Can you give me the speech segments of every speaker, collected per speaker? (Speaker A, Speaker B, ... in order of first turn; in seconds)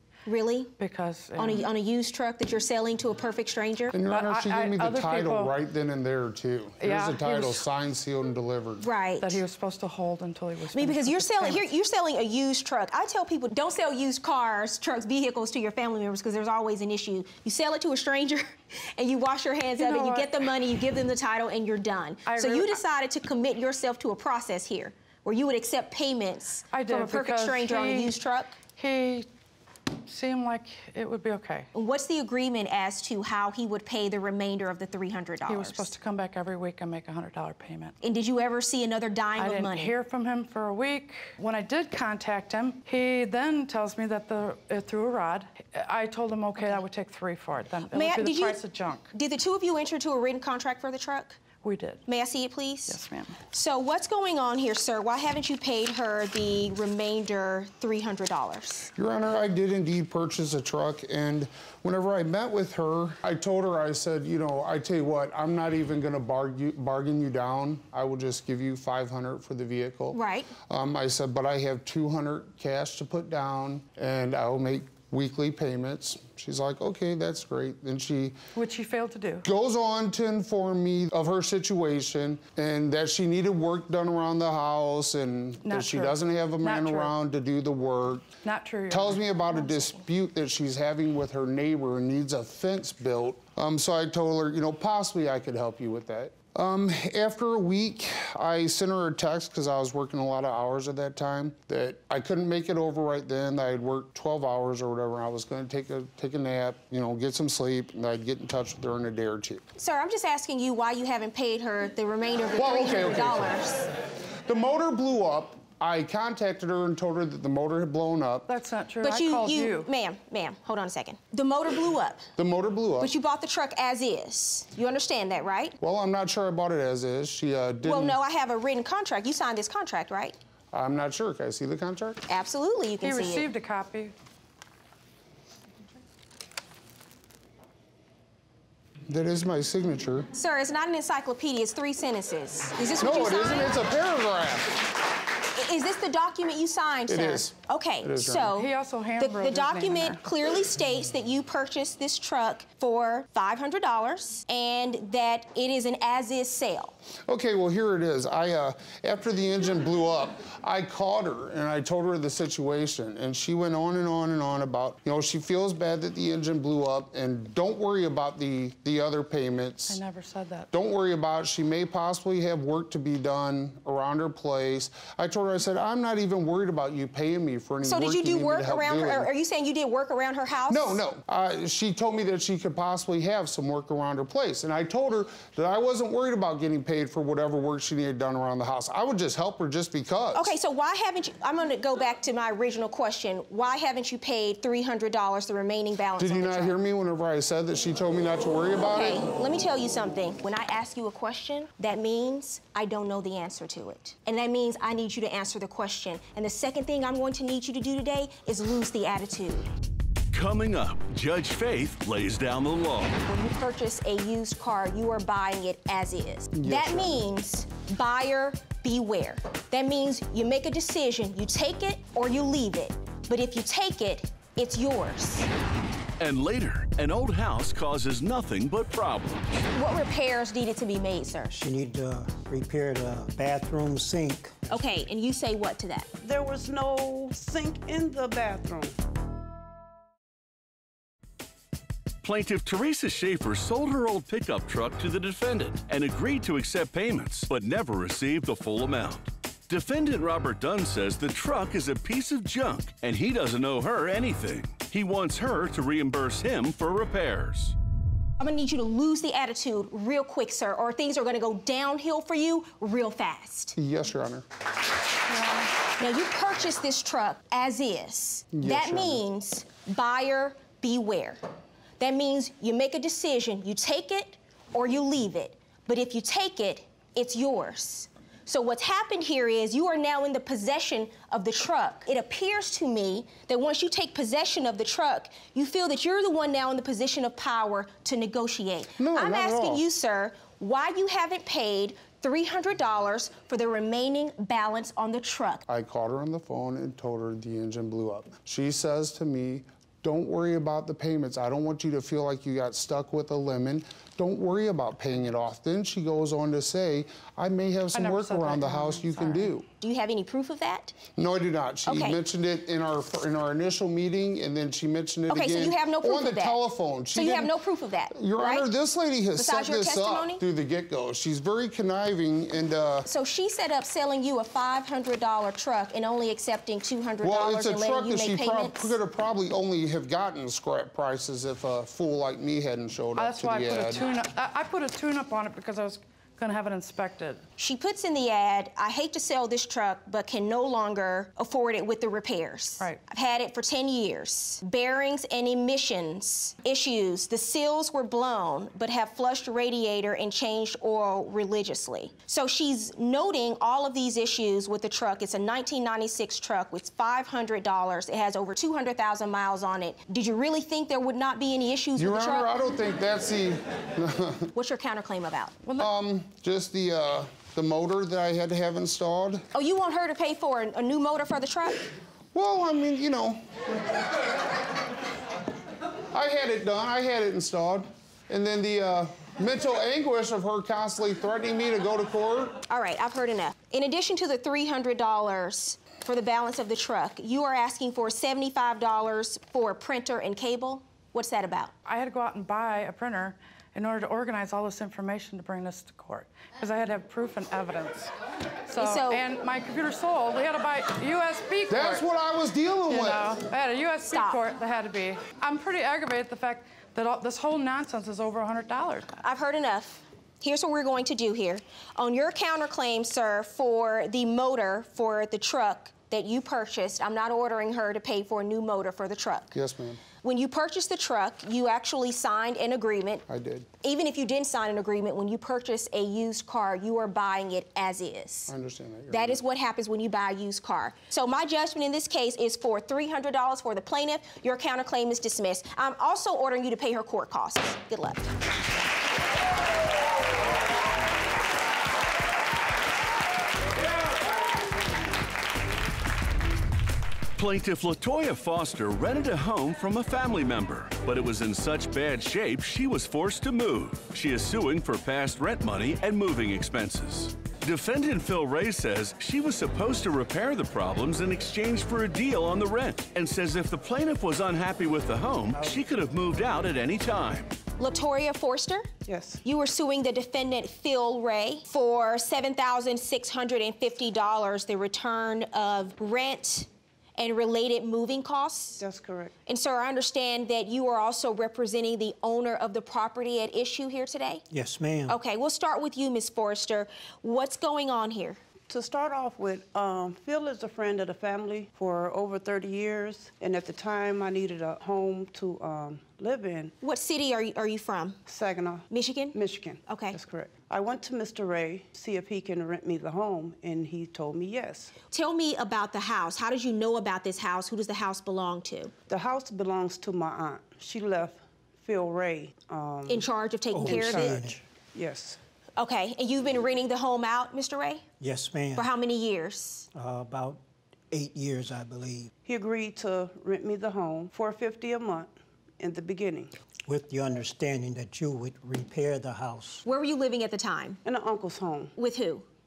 Speaker A: 0.2-0.7, 1.4-4.0, 8.8-9.4, 10.7-28.6, 31.7-35.9, 38.0-39.9, 47.9-48.6, 49.1-51.4, 52.1-58.9, 70.1-70.5, 89.7-89.9, 109.8-113.9, 119.0-122.2, 123.0-125.8, 127.8-130.4, 132.3-133.5, 140.3-143.8, 145.5-156.9, 177.8-181.0, 190.3-196.8, 198.8-209.7, 213.2-225.5, 229.7-231.6, 234.7-236.1, 258.4-263.8, 266.0-271.4, 272.0-295.6, 309.8-310.9, 311.9-312.2, 315.3-316.6, 317.1-318.7, 319.4-320.4, 323.1-328.9, 337.6-362.5, 364.5-365.6, 369.5-371.8, 382.7-391.7, 398.7-399.2, 404.0-404.4, 409.2-419.5, 420.2-423.2, 423.8-428.5, 429.1-438.3, 467.8-468.9, 469.4-478.8, 479.5-484.4, 485.1-488.4, 496.8-498.2, 498.9-500.2, 505.1-508.9, 513.1-514.4, 515.8-518.0, 518.8-519.9, 529.9-531.0, 532.0-532.5
Speaker B: 0.8-1.7, 4.1-5.6, 6.8-7.7, 9.2-11.7, 19.7-20.4, 22.2-22.8, 26.7-28.2, 28.8-29.3, 30.1-31.7, 35.5-37.9, 39.4-49.1, 51.6-52.0, 52.9-53.4, 78.5-79.5, 85.6-87.2, 88.4-89.5, 118.5-119.9, 133.0-134.1, 148.5-150.2, 169.9-170.7, 307.9-309.6, 333.1-337.4, 365.6-365.9, 391.9-398.1, 398.7-402.0, 402.9-409.1
Speaker C: 3.9-8.8, 59.0-70.2, 70.7-78.4, 79.4-88.3, 88.9-109.6, 112.5-113.6, 114.5-118.5, 122.4-123.1, 125.8-128.2, 130.7-132.2, 139.1-140.3, 143.0-144.8, 147.1-148.5, 157.3-170.0, 170.7-179.3, 180.7-190.5, 196.2-199.2, 216.6-217.2, 263.8-264.4, 268.5-269.2, 289.0-289.8, 295.7-309.6, 311.2-317.6, 318.1-323.1, 327.2-334.1, 362.0-364.5, 365.8-369.4, 372.3-373.4, 376.1-382.6, 401.7-403.4, 419.5-420.0, 423.3-423.7, 428.5-429.4
Speaker D: 210.3-213.2, 226.2-229.7, 242.2-257.8, 447.4-467.5
Speaker E: 231.5-234.8, 484.5-485.2, 513.7-514.6, 518.2-518.9, 519.9-522.3, 526.9-529.8
Speaker F: 236.2-238.9, 469.1-469.4, 478.8-479.3, 488.7-496.7, 498.3-504.9, 509.1-513.3, 513.9-515.4, 522.5-526.5, 531.0-531.9